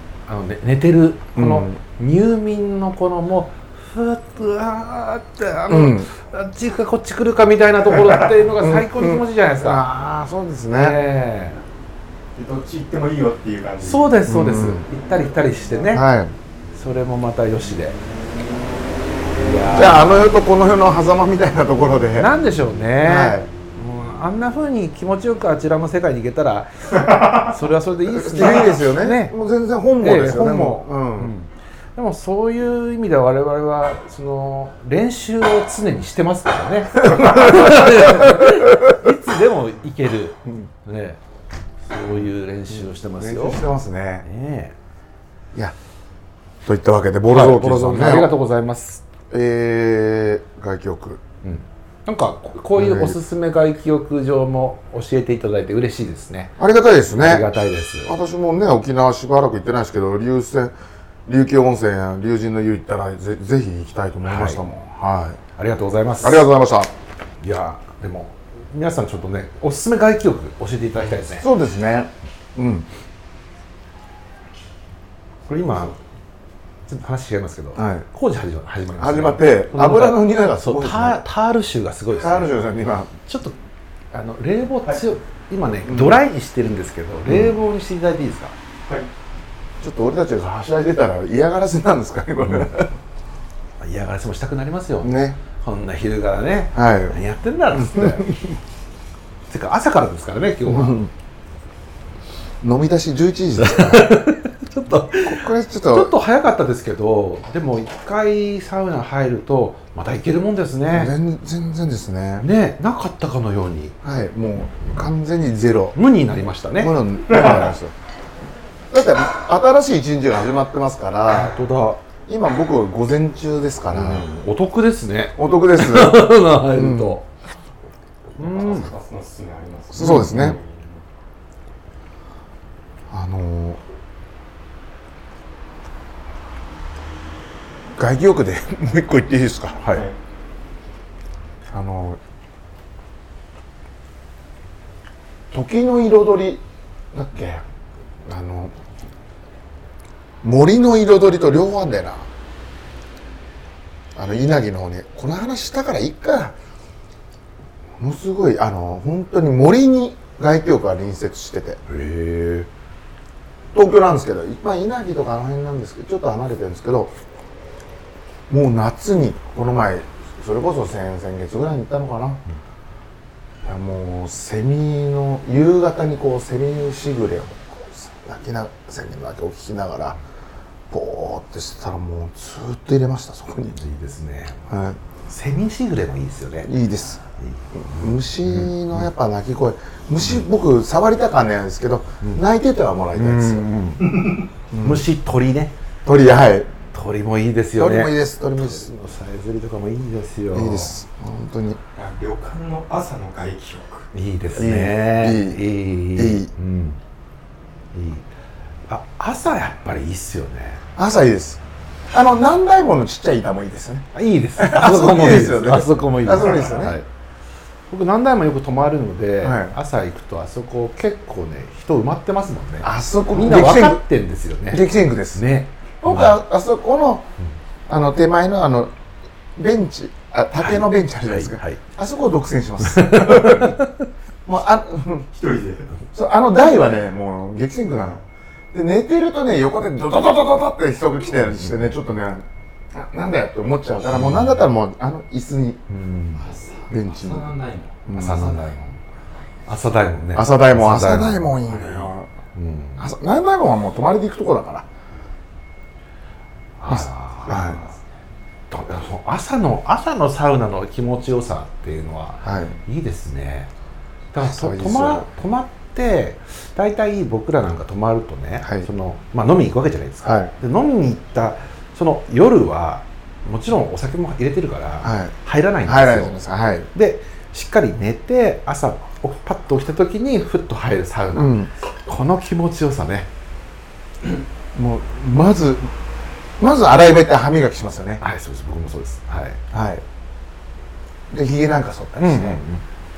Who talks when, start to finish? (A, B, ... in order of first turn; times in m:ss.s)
0:00.3-0:09.8 A
0:01.4-0:01.8 B
0:05.7-0:06.1 B
0:08.6-0:11.0 B
0:10.7-0:11.6 A
0:12.4-0:14.1 C
0:13.8-0:16.0 A
0:14.3-0:14.8 B
0:15.9-0:16.3 B
0:16.7-0:18.0 A
0:19.4-0:20.3 A
0:19.7-0:22.3 B
0:22.2-0:29.4 A
0:23.0-0:23.5 B
0:28.1-0:31.3 B
0:30.0-0:41.2 A
0:37.1-0:38.4 B
0:41.9-0:43.6 A
0:42.9-0:44.3 B
0:44.2-0:44.8 A
0:46.6-0:48.3 B
0:47.3-0:49.0 A
0:49.3-0:51.2 B
0:51.4-0:56.6 A
0:52.8-0:53.2 B
0:56.6-0:57.5 B
0:57.1-0:58.1 A
0:58.0-1:00.7 B
1:01.3-1:05.4 B
1:04.3-1:04.6 A
1:05.6-1:06.5 A
1:06.2-1:06.9 B
1:07.4-1:11.5 A
1:11.3-1:12.9 B
1:15.5-1:16.0 A
1:16.9-1:22.6 A
1:17.8-1:18.1 B
1:19.0-1:21.2 B
1:22.2-1:23.1 B
1:23.2-1:23.6 A
1:24.1-1:28.6 A
1:25.9-1:26.2 B
1:27.3-1:27.6 B
1:29.8-1:32.9 B
1:33.8-1:38.5 A
1:35.0-1:35.4 B
1:36.7-1:37.2 B
1:37.7-1:38.3 B
1:39.5-1:41.1 A
1:40.7-1:41.1 B
1:42.6-1:44.2 B
1:43.6-1:51.1 A
1:45.2-1:46.1 B
1:50.9-1:52.5 B
1:52.4-1:54.0 A
1:54.0-1:56.0 B
1:56.0-1:57.0 A
1:56.8-1:57.9 B
1:58.9-2:01.6 B
2:01.3-2:02.0 A
2:02.3-2:04.3 B
2:03.9-2:07.3 A
2:05.4-2:07.2 B
2:08.4-2:08.9 A
2:08.4-2:11.0 C
2:09.9-2:10.6 B
2:10.0-2:10.6 A
2:13.1-2:13.8 B
2:18.0-2:19.9 B
2:21.7-2:22.2 B
2:25.5-2:27.6 B
2:28.3-2:28.8 B
2:30.4-2:32.3 B
2:34.2-2:36.6 B
2:38.0-2:41.8 B
2:41.9-2:42.7 A
2:43.7-2:47.1 B
2:48.5-2:52.4 B
2:53.6-3:00.2 B
3:00.9-3:03.8 B
3:03.8-3:04.6 A
3:04.7-3:05.0 B
3:05.3-3:06.7 A
3:06.7-3:07.2 B
3:07.4-3:09.0 A
3:07.8-3:13.7 B
3:13.2-3:15.7 A
3:14.0-3:14.4 C
3:14.7-3:15.0 B
3:16.0-3:16.7 B
3:16.9-3:20.9 A
3:17.8-3:18.9 B
3:20.5-3:21.8 B
3:22.0-3:24.1 C
3:24.1-3:27.0 A
3:24.6-3:26.5 B
3:27.9-3:28.3 A
3:28.9-3:30.8 A
3:31.0-3:37.0 B
3:34.1-3:37.1 A
3:37.9-3:46.4 A
3:39.4-3:39.8 B
3:42.8-3:44.0 B
3:44.7-3:45.4 B
3:46.0-3:47.3 B
3:47.9-3:48.9 B
3:49.6-3:53.8 B
3:50.6-3:51.8 A
3:52.8-3:54.1 A
3:54.5-3:55.3 B
3:55.3-3:55.9 C
3:56.1-4:05.8 B
4:01.6-4:01.9 A
4:04.2-4:04.6 A
4:05.9-4:06.4 A
4:06.4-4:08.0 C
4:06.9-4:08.6 B
4:08.1-4:09.0 A
4:09.7-4:13.1 A
4:10.4-4:12.3 B
4:13.0-4:14.9 B
4:16.8-4:17.8 A
4:16.9-4:17.8 B
4:17.5-4:18.0 C
4:18.7-4:23.7 A
4:22.4-4:22.8 B
4:24.3-4:36.4 A
4:24.4-4:25.3 B
4:28.6-4:28.9 B
4:30.2-4:30.5 B
4:35.0-4:35.3 B
4:35.8-4:36.9 B
4:36.9-4:43.3 A
4:41.4-4:41.7 B
4:44.8-4:45.9 B
4:46.6-4:48.2 B
4:48.2-4:49.6 A
4:49.7-4:50.0 B
4:51.3-4:52.6 B
4:52.2-4:52.8 A